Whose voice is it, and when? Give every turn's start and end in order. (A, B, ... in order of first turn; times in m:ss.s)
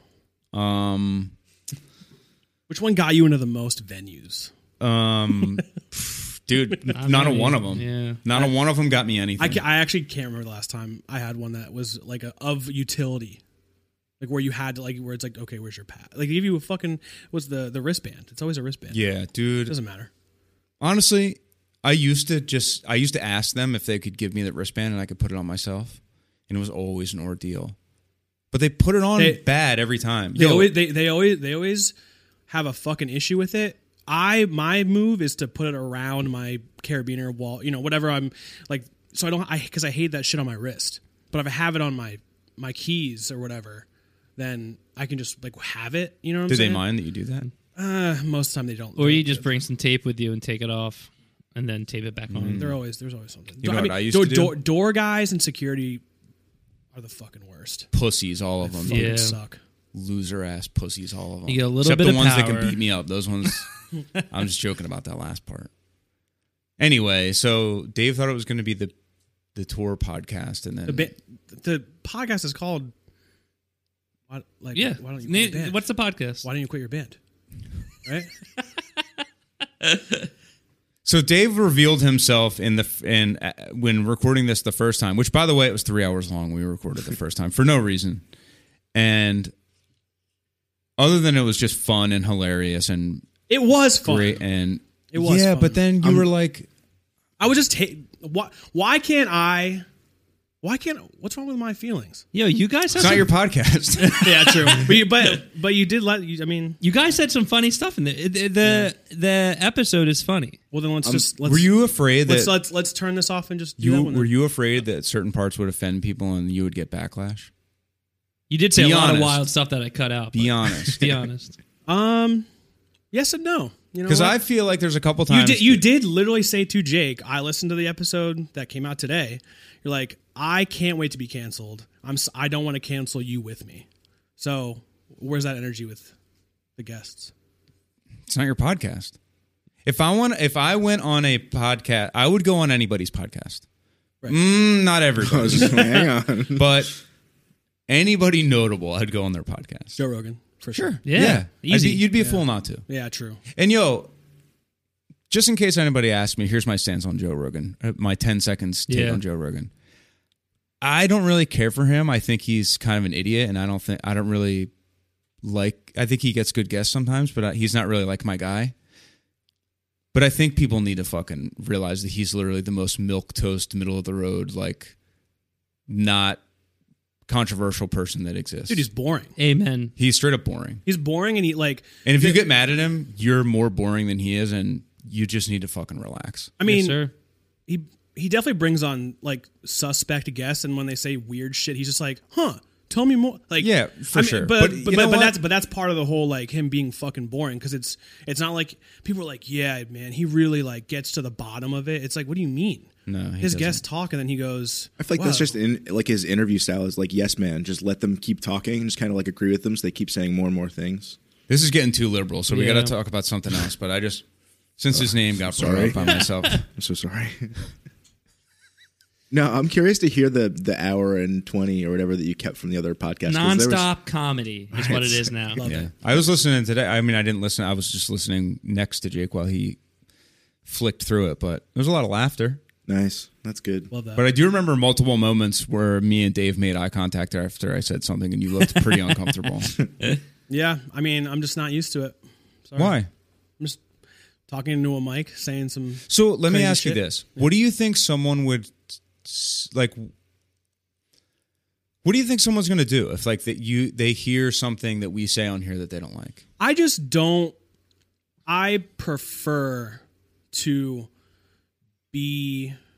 0:00.5-0:01.3 A
0:02.7-0:04.5 B
0:04.8-0:09.6 A
0:06.9-0:08.2 C
0:09.4-0:13.4 B
0:14.2-0:19.0 B
0:18.9-0:19.8 A
0:19.7-0:20.1 B
0:20.8-0:27.8 A
0:28.5-0:30.7 A
0:30.4-0:31.9 B
0:32.5-0:43.9 B
0:44.4-0:46.8 B
0:46.5-0:47.5 A
0:47.8-0:49.5 B
0:49.0-0:52.8 C
0:52.3-0:52.8 A
0:52.6-0:56.0 B
0:53.6-0:54.6 A
0:56.9-0:57.9 B
0:57.9-0:59.1 A
0:58.6-0:59.6 B
0:58.9-0:59.4 C
0:59.9-1:03.8 A
1:01.5-1:02.8 C
1:04.3-1:05.7 A
1:06.8-1:08.9 A
1:09.6-1:11.1 A
1:10.9-1:12.9 B
1:14.3-1:15.8 B
1:14.7-1:16.4 C
1:16.4-1:17.2 B
1:18.0-1:18.3 B
1:19.8-1:20.3 C
1:21.0-1:28.2 A
1:28.9-1:29.5 A
1:31.0-1:33.3 A
1:33.5-1:34.4 B
1:34.0-1:36.7 A
1:35.1-1:36.2 B
1:37.4-1:39.8 B
1:40.6-1:42.3 B
1:42.3-1:43.3 C
1:42.9-1:44.9 A
1:44.0-1:45.2 C
1:44.2-1:46.8 B
1:46.8-1:50.6 C
1:48.6-1:48.9 B
1:50.7-1:51.7 B
1:51.4-1:52.5 A
1:52.3-1:54.3 B
1:53.8-1:57.5 A
1:58.5-2:01.6 C
1:58.8-1:59.4 A
2:00.3-2:01.1 A
2:01.9-2:02.5 B
2:03.1-2:04.4 B
2:04.1-2:05.8 A
2:05.3-2:13.9 B
2:14.4-2:16.1 B
2:16.8-2:17.3 B
2:18.3-2:19.2 A
2:19.8-2:23.6 A
2:24.3-2:27.0 A
2:25.2-2:26.8 D
2:27.9-2:30.0 A
2:30.0-2:31.3 B
2:30.7-2:32.1 C
2:31.1-2:32.9 A
2:32.2-2:33.4 B
2:33.5-2:34.1 A
2:35.3-2:39.7 A
2:38.9-2:39.2 C
2:40.8-2:44.7 A
2:45.4-2:48.7 A
2:50.1-2:54.9 A
2:55.9-2:56.4 A
2:57.3-2:58.9 A
2:58.7-2:59.4 B
2:59.4-3:00.0 C
3:00.0-3:00.8 A
3:00.8-3:02.4 B
3:02.0-3:06.5 A
3:06.6-3:07.1 B
3:06.6-3:07.1 C
3:07.7-3:25.5 B
3:13.6-3:15.4 A
3:23.1-3:23.8 A
3:25.0-3:31.2 D
3:31.5-3:34.2 A
3:32.5-3:33.0 C
3:34.8-3:36.7 A
3:34.9-3:37.6 D
3:39.3-3:43.9 D
3:43.3-3:45.6 C
3:44.7-3:45.3 D
3:45.5-3:46.2 B
3:45.6-3:49.8 A
3:50.6-3:52.6 A
3:52.9-3:53.9 D
3:53.9-3:54.2 B
3:54.2-3:59.7 A
4:00.5-4:03.0 B
4:02.8-4:03.1 A
4:04.5-4:07.5 B
4:06.1-4:10.1 A
4:12.0-4:16.4 A
4:16.6-4:17.6 B
4:18.5-4:21.1 B
4:22.1-4:22.8 B